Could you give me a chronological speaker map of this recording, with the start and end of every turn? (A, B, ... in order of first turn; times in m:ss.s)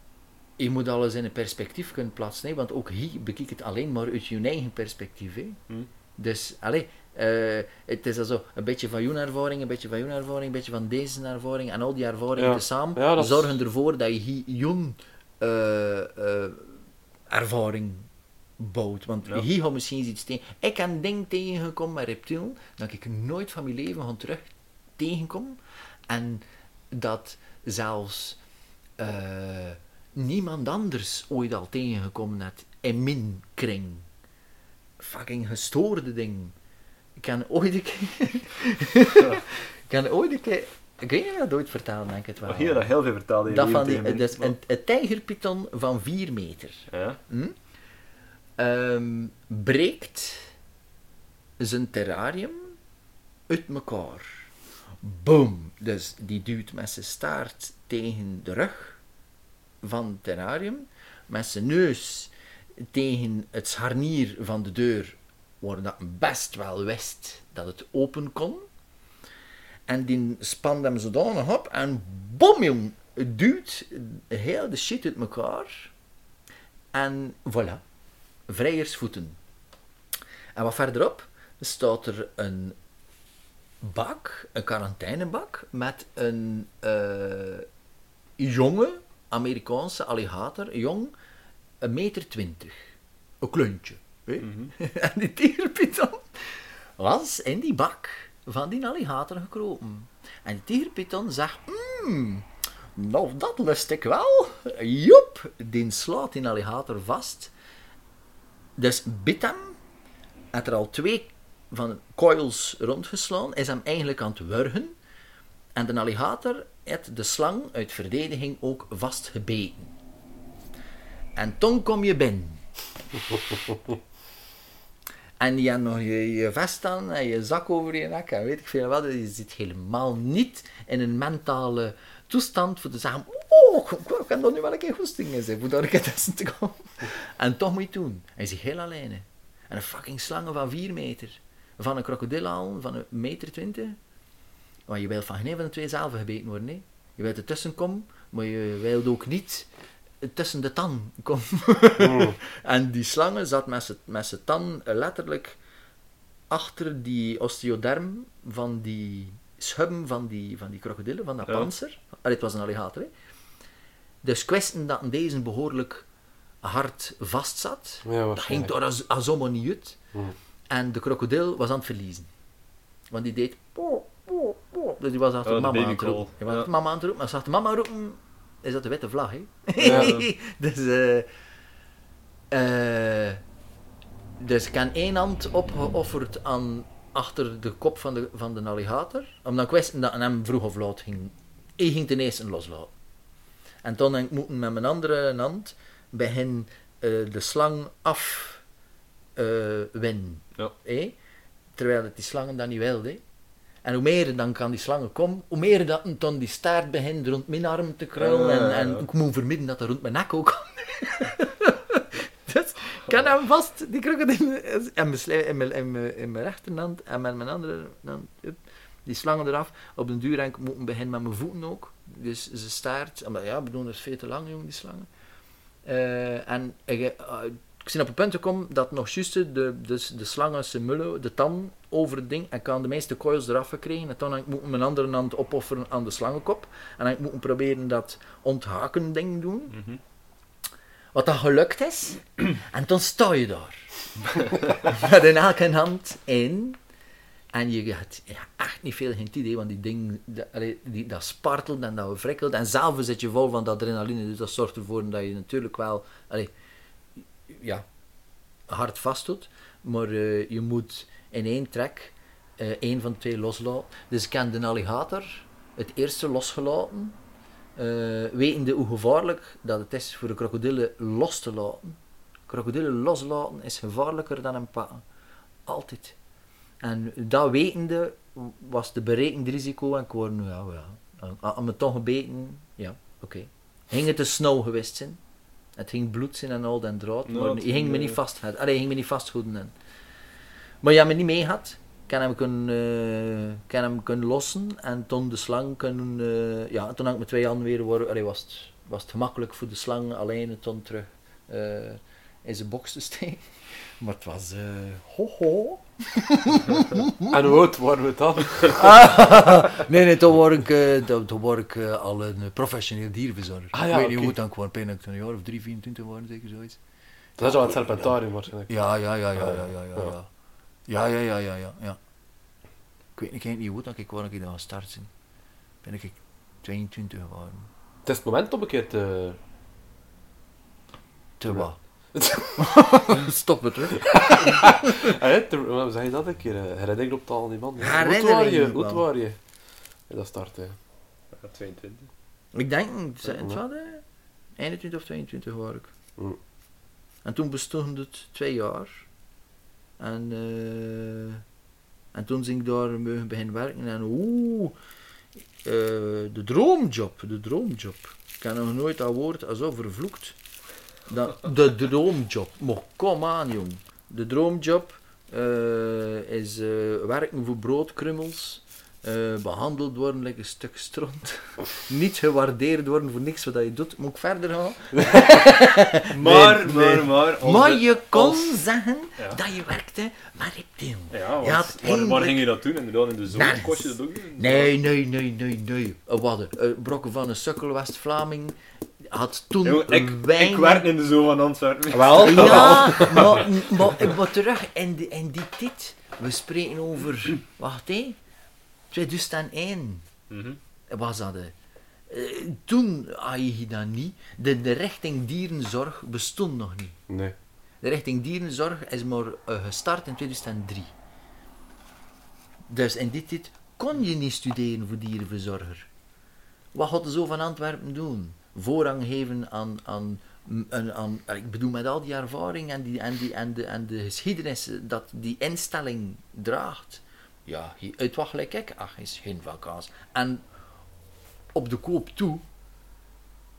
0:00.6-0:05.6 A
0:06.2-0:16.8 A
0:12.4-0:13.5 B
0:17.3-0:18.1 A
0:18.6-0:25.6 A
0:26.1-0:28.4 A
0:29.0-0:34.0 A
0:35.0-0:36.5 A
0:37.2-0:42.9 A
0:42.4-0:44.6 C
0:43.5-0:47.6 A
0:46.9-0:47.2 C
0:48.6-0:50.5 A
0:51.6-0:52.8 A
0:53.5-0:54.5 A
0:55.0-0:59.0 A
0:59.8-1:02.3 A
1:02.9-1:08.6 A
1:09.9-1:15.9 A
1:16.9-1:17.8 A
1:18.5-1:19.4 A
1:20.6-1:22.8 A
1:23.8-1:27.6 A
1:28.4-1:31.1 A
1:31.8-1:32.9 A
1:33.4-1:47.5 A
1:34.4-1:34.7 C
1:48.8-1:49.8 A
1:50.5-1:54.9 A
1:55.8-1:59.9 A
2:01.4-2:02.6 A
2:05.4-2:24.0 A
2:24.9-2:29.7 A
2:30.2-2:35.6 A
2:32.0-2:32.4 B
2:36.5-2:43.1 A
2:44.2-2:46.1 A
2:46.6-2:50.0 A
2:48.0-2:48.7 B
2:50.7-2:52.3 A
2:53.1-3:01.3 A
2:55.4-2:56.7 C
2:59.8-3:00.2 C
2:59.8-3:00.2 B
3:02.5-3:03.4 A
3:04.4-3:12.9 A
3:13.8-3:18.6 A
3:19.4-3:21.2 A
3:21.8-3:23.2 A
3:23.8-3:45.1 A
3:28.2-3:29.0 C
3:45.8-3:59.8 A
3:59.7-4:00.0 C
4:01.1-4:03.9 A
4:04.4-4:06.8 A
4:07.5-4:16.5 A
4:17.5-4:17.8 A
4:18.7-4:27.2 A
4:27.8-4:32.0 A
4:32.5-4:35.0 A
4:35.6-4:36.2 A
4:36.8-4:45.2 A
4:45.8-4:49.7 A
4:47.3-4:48.2 C
4:50.8-5:03.5 A
5:04.0-5:07.4 A
5:07.3-5:08.9 B
5:08.7-5:16.8 A
5:13.7-5:14.4 B
5:17.4-5:18.7 B
5:18.7-5:20.3 A
5:19.4-5:20.1 B
5:20.9-5:22.0 A
5:23.2-5:25.1 A
5:25.8-5:27.7 A
5:28.0-5:29.4 B
5:31.4-5:31.8 A
5:32.1-5:32.8 B
5:32.6-5:35.1 A
5:34.0-5:39.4 B
5:37.8-5:39.0 A
5:40.1-5:40.8 B
5:41.3-5:42.1 C
5:42.5-5:44.0 A
5:44.6-5:45.9 A
5:47.2-5:49.1 A
5:50.0-5:51.4 A
5:52.1-5:54.7 A
5:55.6-6:00.4 A
6:01.1-6:22.4 A
6:16.1-6:18.6 C
6:21.1-6:24.7 C
6:23.3-6:28.6 A
6:29.1-6:30.9 A
6:29.6-6:33.4 C
6:31.9-6:33.4 B
6:32.2-6:38.2 A
6:38.9-6:40.0 A
6:40.3-6:40.6 C
6:40.9-6:41.5 A
6:42.1-6:47.0 A
6:47.1-6:47.3 B
6:47.8-6:50.9 A
6:52.7-6:55.9 A
6:56.7-7:10.4 A
7:11.5-7:12.4 A